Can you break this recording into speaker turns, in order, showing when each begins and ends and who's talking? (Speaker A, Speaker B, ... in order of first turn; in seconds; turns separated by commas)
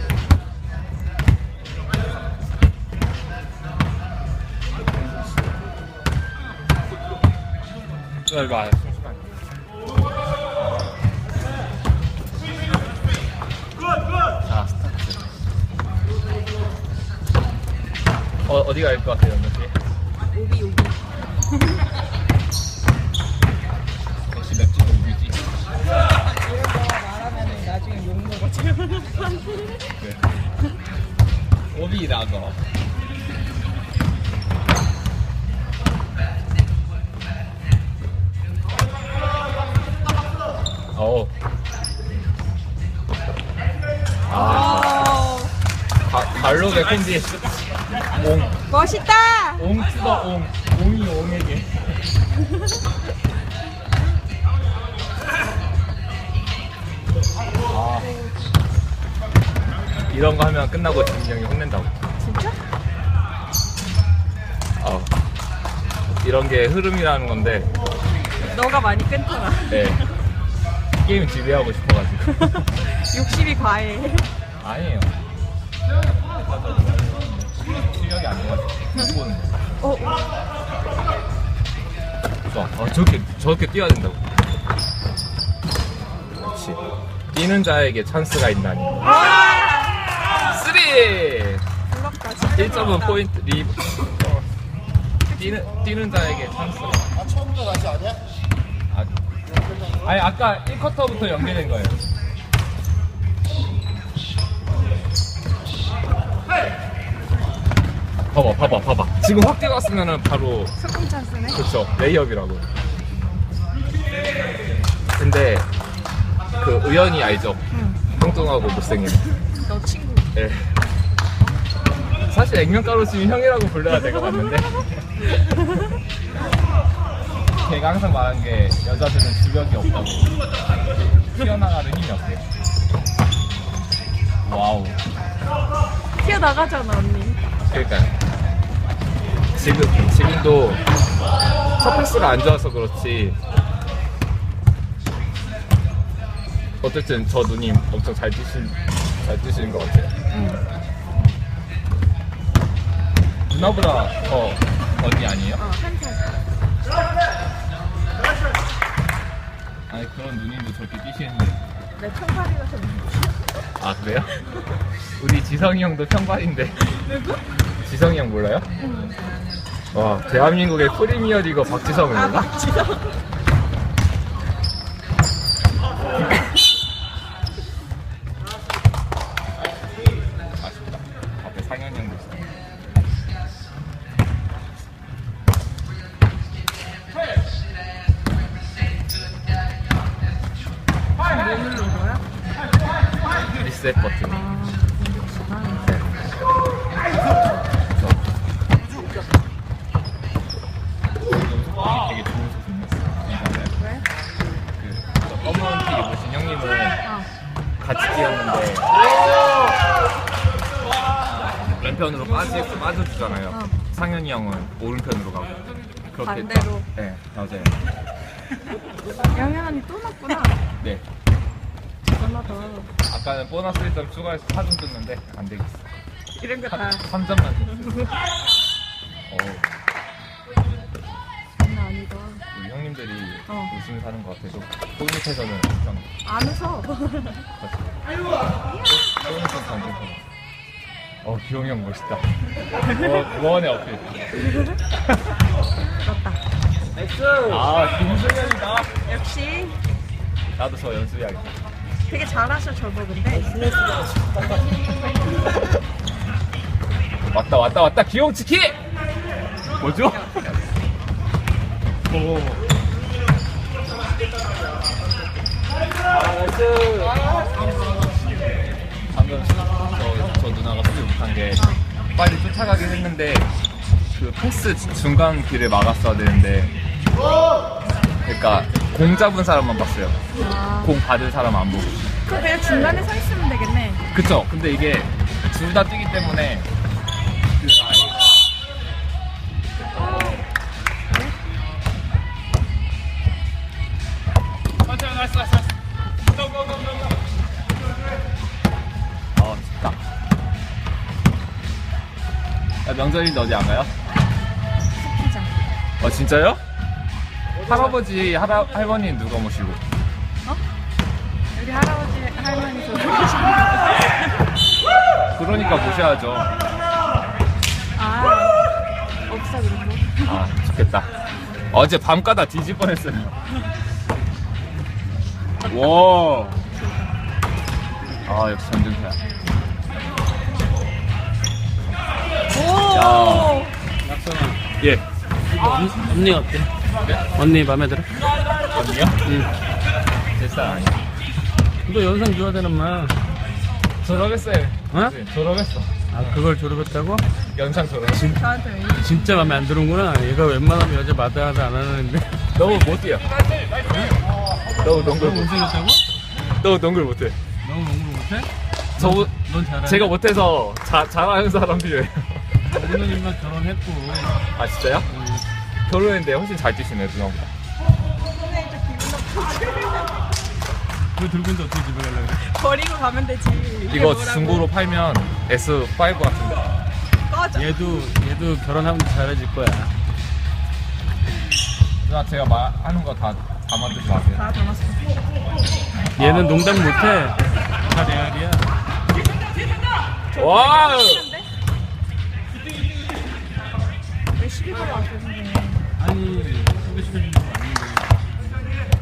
Speaker A: 8.2-9.3, Speaker A: 14.4-15.2, Speaker A: 18.4-19.7, Speaker B: 20.3-21.1, Speaker A: 24.3-25.5, Speaker B: 26.4-29.8, Speaker A: 31.7-32.6, Speaker A: 40.9-41.3, Speaker A: 44.3-45.1, Speaker B: 44.3-45.5, Speaker A: 46.1-47.5, Speaker A: 48.1-48.6, Speaker B: 48.7-49.7, Speaker A: 49.6-52.0, Speaker A: 57.7-58.1, Speaker A: 60.1-61.9, Speaker B: 62.2-62.6, Speaker A: 64.8-65.1, Speaker A: 66.2-67.7, Speaker B: 68.5-70.1, Speaker A: 69.7-70.0, Speaker A: 71.0-72.6, Speaker B: 72.5-74.3, Speaker A: 74.6-75.1, Speaker A: 76.4-79.5, Speaker B: 79.8-80.3, Speaker A: 82.5-84.2, Speaker A: 86.3-86.8, Speaker A: 87.3-89.0, Speaker B: 89.0-90.3, Speaker A: 90.3-91.6, Speaker B: 91.9-93.2, Speaker A: 92.5-94.5, Speaker B: 95.3-95.6, Speaker A: 95.3-97.1, Speaker A: 100.0-102.0, Speaker A: 108.3-110.7, Speaker B: 110.8-111.6, Speaker A: 111.5-112.7, Speaker A: 115.2-115.7, Speaker A: 116.6-119.2, Speaker B: 117.7-118.0, Speaker B: 119.6-120.3, Speaker A: 120.3-120.7, Speaker A: 122.3-125.1, Speaker A: 127.6-130.3, Speaker A: 131.2-132.4, Speaker A: 134.4-135.0, Speaker B: 136.2-137.4, Speaker A: 137.7-138.1, Speaker A: 139.5-140.8, Speaker A: 141.8-143.4, Speaker A: 146.8-150.1, Speaker B: 150.3-150.6, Speaker A: 153.5-155.6, Speaker B: 155.6-156.3, Speaker A: 159.9-161.6, Speaker B: 162.0-163.4, Speaker A: 163.8-164.3, Speaker A: 165.2-166.9, Speaker B: 166.9-167.4, Speaker A: 167.8-168.7, Speaker B: 168.8-169.2, Speaker A: 169.9-172.5, Speaker B: 172.1-173.1, Speaker A: 180.6-182.5, Speaker B: 191.2-192.2, Speaker A: 193.5-194.4, Speaker B: 194.3-196.1, Speaker A: 201.3-203.7, Speaker B: 203.8-204.1, Speaker A: 204.8-207.0, Speaker A: 207.8-209.0, Speaker A: 211.6-217.7, Speaker B: 216.2-216.8, Speaker B: 219.3-220.6, Speaker B: 222.1-222.9, Speaker A: 223.1-225.8, Speaker B: 226.4-227.0, Speaker A: 226.7-228.1, Speaker A: 229.3-229.7, Speaker B: 231.6-232.4, Speaker A: 232.5-236.1, Speaker B: 233.5-233.7, Speaker B: 236.2-237.4, Speaker A: 237.6-238.0, Speaker A: 238.8-240.2, Speaker A: 241.2-242.2, Speaker A: 242.8-244.1, Speaker B: 246.0-246.4, Speaker A: 247.4-248.9, Speaker B: 249.0-249.8, Speaker A: 250.6-251.5, Speaker B: 252.1-253.8, Speaker A: 257.3-258.8, Speaker A: 259.8-260.5, Speaker A: 266.1-267.2, Speaker A: 269.1-271.6, Speaker B: 271.6-271.8, Speaker A: 272.1-273.5, Speaker A: 274.1-276.7, Speaker A: 278.2-280.2, Speaker B: 280.3-281.0, Speaker A: 280.8-282.0, Speaker B: 282.2-284.0, Speaker A: 284.1-286.7, Speaker B: 289.9-290.4, Speaker A: 299.4-300.0, Speaker A: 302.8-303.9, Speaker B: 305.0-305.8, Speaker A: 306.0-306.6, Speaker A: 307.6-309.8, Speaker B: 311.5-314.2, Speaker A: 315.3-316.5, Speaker B: 317.9-318.6, Speaker B: 319.3-320.4, Speaker A: 320.2-321.1, Speaker A: 321.7-323.3, Speaker A: 325.6-326.6, Speaker B: 326.7-327.1, Speaker A: 328.2-329.2, Speaker B: 332.5-333.7, Speaker A: 332.8-333.6, Speaker C: 334.0-334.6, Speaker C: 335.5-336.7, Speaker C: 337.3-338.2, Speaker A: 338.7-339.2, Speaker A: 340.4-341.0, Speaker C: 341.9-343.1, Speaker A: 344.0-346.4, Speaker C: 346.1-347.2, Speaker A: 347.5-348.4, Speaker C: 348.1-352.4, Speaker B: 348.1-349.6, Speaker A: 352.5-353.3, Speaker C: 353.9-354.1, Speaker C: 354.7-356.0, Speaker A: 354.8-355.6, Speaker A: 356.6-357.4, Speaker C: 357.6-360.2, Speaker A: 358.9-359.3, Speaker A: 359.8-362.5, Speaker C: 362.6-364.4, Speaker A: 364.5-365.1, Speaker C: 365.1-365.4, Speaker A: 365.9-367.5, Speaker B: 368.3-370.4, Speaker C: 371.1-372.5, Speaker B: 372.4-374.6, Speaker A: 373.9-376.6, Speaker B: 377.3-377.7, Speaker C: 377.5-379.9, Speaker A: 382.0-384.4, Speaker B: 384.3-385.0, Speaker A: 386.1-386.7, Speaker C: 386.2-388.6, Speaker B: 390.3-391.5, Speaker A: 390.3-391.2, Speaker B: 394.3-395.8, Speaker C: 396.0-398.7